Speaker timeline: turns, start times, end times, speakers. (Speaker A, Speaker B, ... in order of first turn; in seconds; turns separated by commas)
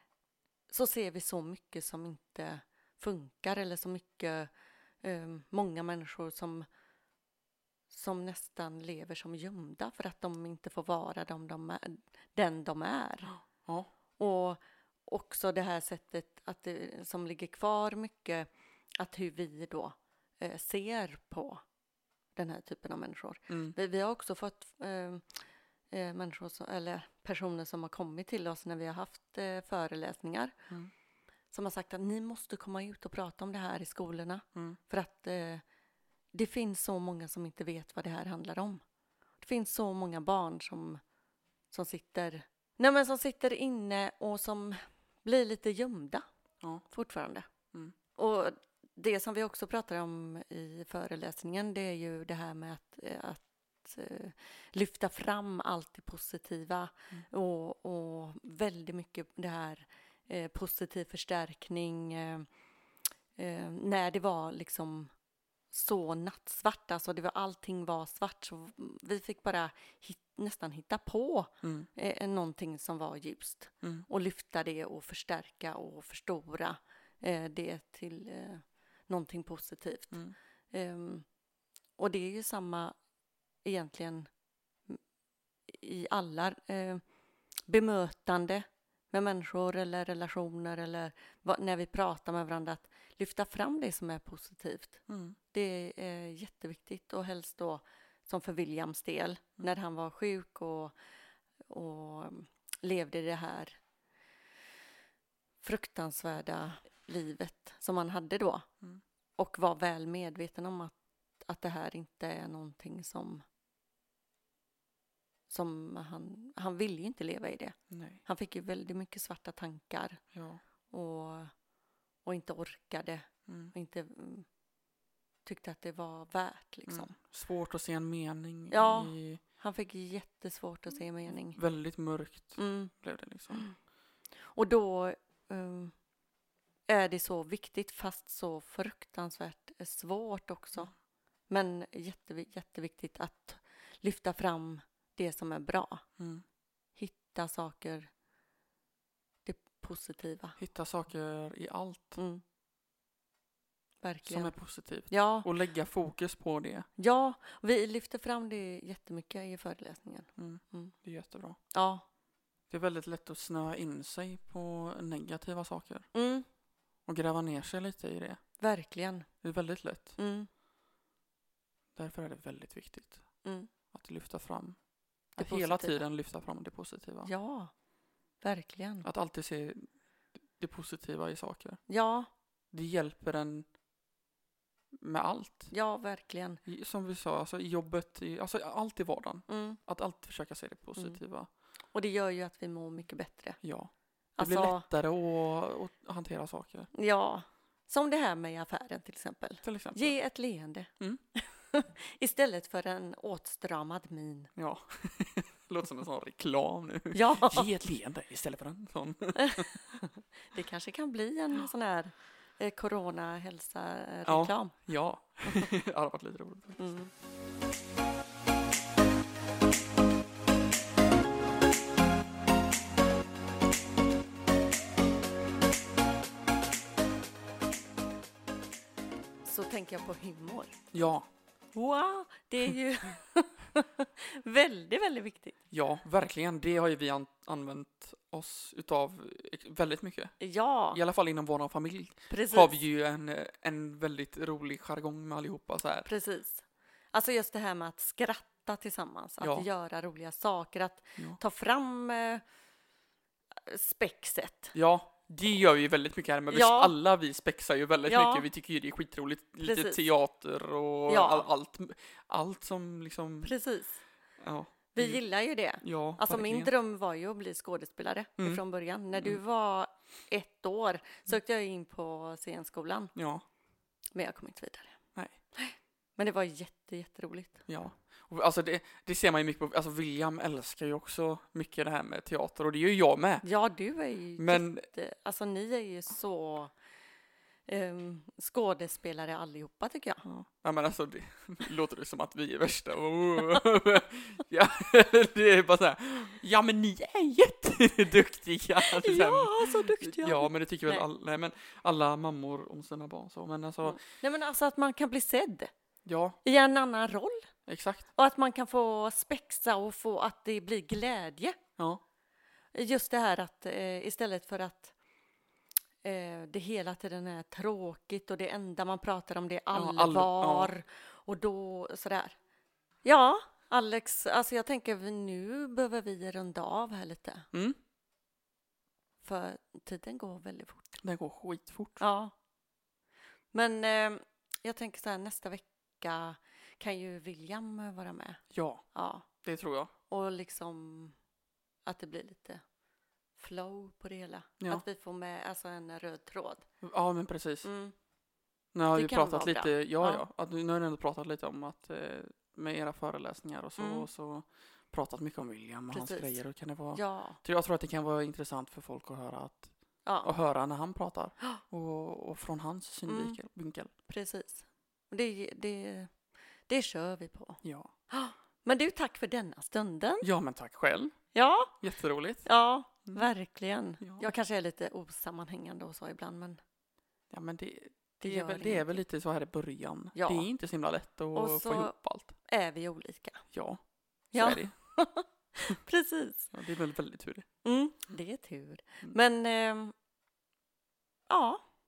Speaker A: 0.7-4.5, Speaker A: 5.0-6.7, Speaker A: 7.9-13.3, Speaker B: 13.2-13.9, Speaker A: 14.2-18.5, Speaker A: 19.0-21.6, Speaker A: 22.4-25.3, Speaker B: 23.5-23.8, Speaker A: 25.9-30.5, Speaker A: 31.5-35.6, Speaker A: 36.3-38.8, Speaker A: 39.4-41.0, Speaker A: 41.7-46.2, Speaker A: 46.9-47.5, Speaker A: 48.1-62.5, Speaker A: 63.4-65.1, Speaker A: 65.7-80.2, Speaker B: 71.6-71.9, Speaker A: 80.7-81.2, Speaker A: 82.0-82.9, Speaker A: 83.6-84.3, Speaker A: 85.7-87.0, Speaker A: 87.7-100.9, Speaker B: 95.1-95.4, Speaker A: 101.7-103.8, Speaker A: 105.6-108.7, Speaker A: 109.4-113.4, Speaker A: 115.5-120.2, Speaker B: 117.9-118.2, Speaker B: 120.3-120.6, Speaker A: 120.9-121.5, Speaker A: 122.2-124.5, Speaker B: 123.5-123.7, Speaker A: 125.5-127.1, Speaker B: 126.9-129.4, Speaker A: 128.7-131.6, Speaker B: 131.5-133.7, Speaker A: 132.6-132.9, Speaker A: 134.5-135.9, Speaker A: 136.9-140.9, Speaker A: 141.5-146.0, Speaker B: 146.2-146.4, Speaker A: 146.9-148.1, Speaker A: 149.4-150.6, Speaker B: 150.6-152.2, Speaker A: 152.2-152.4, Speaker A: 154.0-154.5, Speaker B: 154.2-156.9, Speaker A: 155.1-155.5, Speaker A: 157.0-160.9, Speaker B: 160.4-161.6, Speaker A: 161.7-162.0, Speaker B: 162.7-166.1, Speaker A: 166.1-166.5, Speaker B: 167.1-168.4, Speaker A: 168.6-169.3, Speaker B: 169.4-170.2, Speaker A: 170.2-170.5, Speaker B: 171.9-173.2, Speaker A: 173.4-173.7, Speaker B: 173.9-174.8, Speaker B: 175.3-177.3, Speaker A: 175.4-176.0, Speaker A: 177.2-177.7, Speaker A: 178.4-179.1, Speaker B: 179.0-179.9, Speaker B: 180.6-181.8, Speaker A: 181.9-182.3, Speaker B: 182.7-183.7, Speaker B: 185.0-185.7, Speaker A: 185.7-186.6, Speaker B: 186.7-191.5, Speaker A: 189.5-189.8, Speaker A: 191.9-193.6, Speaker B: 193.6-196.9, Speaker A: 194.4-194.8, Speaker A: 196.9-204.5, Speaker B: 199.6-200.1, Speaker B: 204.6-209.9, Speaker A: 207.1-207.7, Speaker A: 209.3-214.8, Speaker B: 214.2-216.9, Speaker A: 216.8-217.1, Speaker A: 229.4-230.8, Speaker B: 230.9-231.3, Speaker A: 231.7-235.6, Speaker B: 235.7-240.3, Speaker A: 240.4-241.0, Speaker B: 240.9-246.1, Speaker A: 242.3-242.8, Speaker A: 246.0-252.4, Speaker B: 249.4-249.7, Speaker A: 253.7-254.7, Speaker B: 254.7-263.5, Speaker A: 256.5-256.9, Speaker A: 258.1-258.5, Speaker A: 259.6-260.0, Speaker A: 261.1-261.5, Speaker A: 263.4-264.0, Speaker B: 264.4-265.2, Speaker A: 264.9-273.1, Speaker B: 265.8-266.7, Speaker B: 273.1-273.4, Speaker A: 274.1-275.0, Speaker A: 275.5-277.6, Speaker B: 277.7-283.4, Speaker A: 283.4-286.7, Speaker B: 284.4-284.9, Speaker A: 287.7-290.2, Speaker B: 290.3-304.0, Speaker A: 298.8-301.0, Speaker A: 303.8-305.7, Speaker B: 306.0-306.4, Speaker A: 306.4-307.5, Speaker B: 307.7-308.1, Speaker A: 308.1-311.6, Speaker A: 312.7-314.9, Speaker A: 316.0-322.4, Speaker B: 319.7-320.7, Speaker A: 323.0-327.5, Speaker B: 327.5-327.8, Speaker A: 329.2-331.0, Speaker B: 331.0-332.0, Speaker A: 332.0-332.3, Speaker A: 333.5-338.4, Speaker B: 338.5-338.8, Speaker A: 338.9-339.3, Speaker B: 339.4-339.9, Speaker A: 340.1-341.1, Speaker A: 341.9-342.6, Speaker A: 343.4-346.6, Speaker B: 346.8-347.7, Speaker A: 347.6-347.9, Speaker B: 348.7-359.7, Speaker A: 348.9-350.2, Speaker A: 353.8-354.1, Speaker A: 355.9-356.4, Speaker A: 356.9-357.4, Speaker A: 360.0-360.3, Speaker B: 360.2-363.9, Speaker A: 363.1-363.4, Speaker A: 364.1-366.1, Speaker A: 366.7-370.3, Speaker B: 367.6-367.9, Speaker B: 370.2-371.1, Speaker A: 371.3-371.7, Speaker B: 371.8-372.5, Speaker A: 372.4-376.6, Speaker B: 374.0-374.3, Speaker B: 377.3-382.3, Speaker A: 378.2-378.9, Speaker A: 380.1-380.5, Speaker A: 381.3-381.9, Speaker A: 382.4-383.4, Speaker B: 383.5-383.8, Speaker B: 384.3-384.7, Speaker A: 384.3-386.5, Speaker B: 386.5-387.4, Speaker A: 387.6-389.9, Speaker A: 391.3-391.6